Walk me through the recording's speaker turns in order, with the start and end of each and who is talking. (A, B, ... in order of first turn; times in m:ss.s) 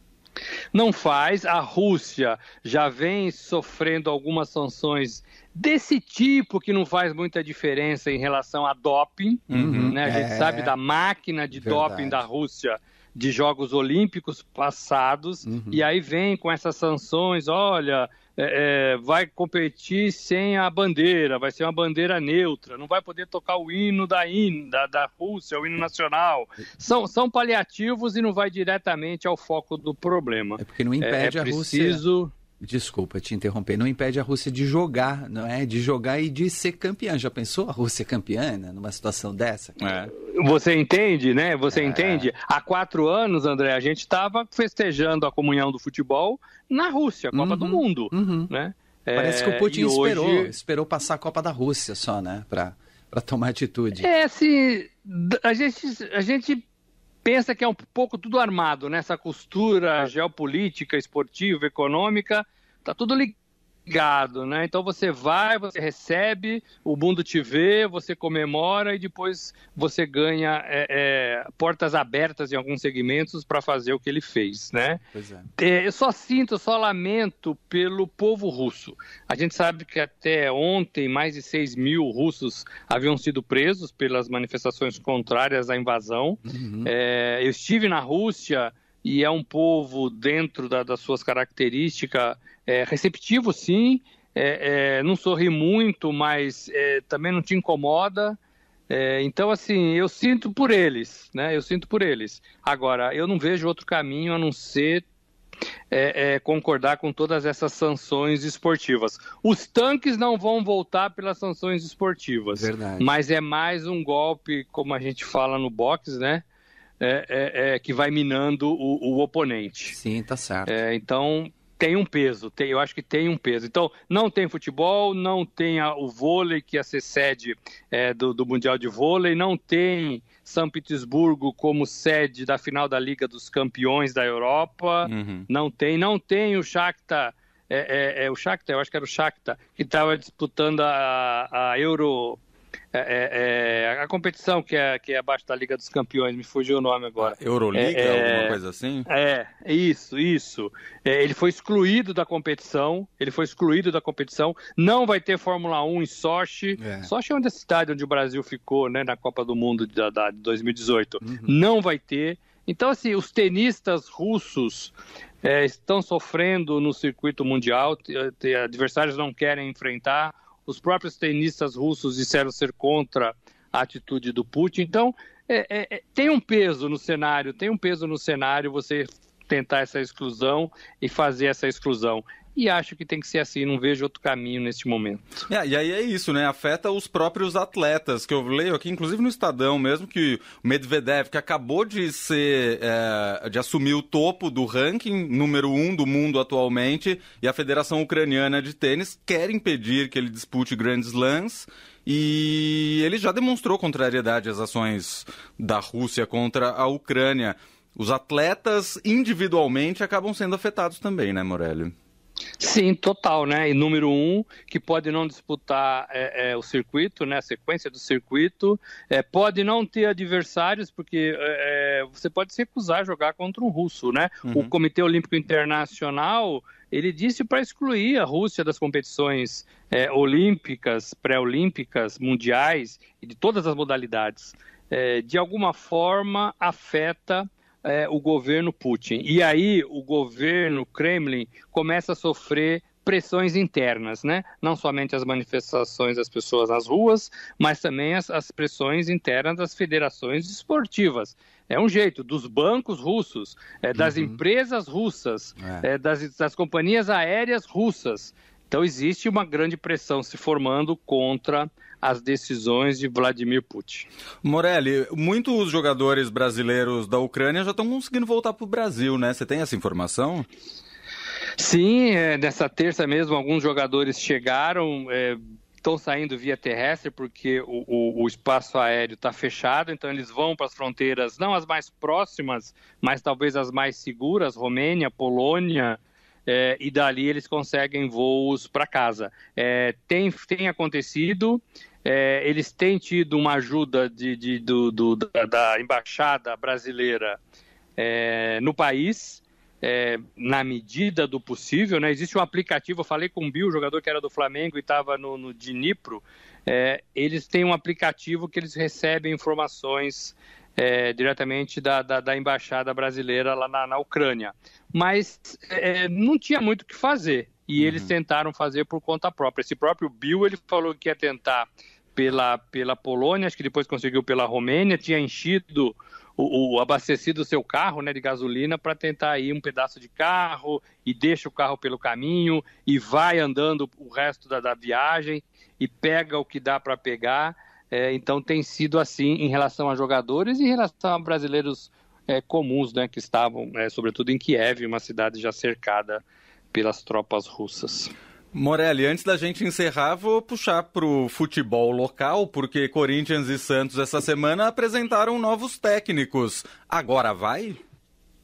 0:00.7-0:32.3 A
0:09.5-0:10.0 B
0:09.5-0:10.7 C
0:11.5-0:12.2 C
0:15.4-0:15.8 C
0:30.6-0:32.0 C
0:32.6-0:39.8 C
0:39.8-0:40.1 B
0:40.2-0:50.5 A
0:41.7-0:42.3 C
0:47.3-0:48.5 C
0:49.2-0:54.1 C
0:54.0-0:56.7 A
0:57.2-1:15.0 A
1:15.1-1:15.5 C
1:15.6-1:38.4 A
1:26.5-1:26.9 C
1:38.9-1:45.1 A
1:45.9-1:56.4 A
1:52.5-1:53.1 C
1:57.0-2:00.0 A
1:59.9-2:00.8 C
2:00.7-2:22.4 A
2:15.0-2:15.5 B
2:22.9-3:05.3 A
2:27.2-2:29.1 B
2:36.8-2:37.1 C
2:41.2-2:41.5 C
3:05.5-3:31.9 B
3:32.6-4:24.1 A
3:44.5-3:44.7 B
4:14.0-4:14.4 C
4:15.6-4:15.8 C
4:24.4-4:30.4 B
4:31.6-4:57.4 A
4:58.0-5:48.1 A
5:17.8-5:18.1 B
5:48.5-5:57.8 B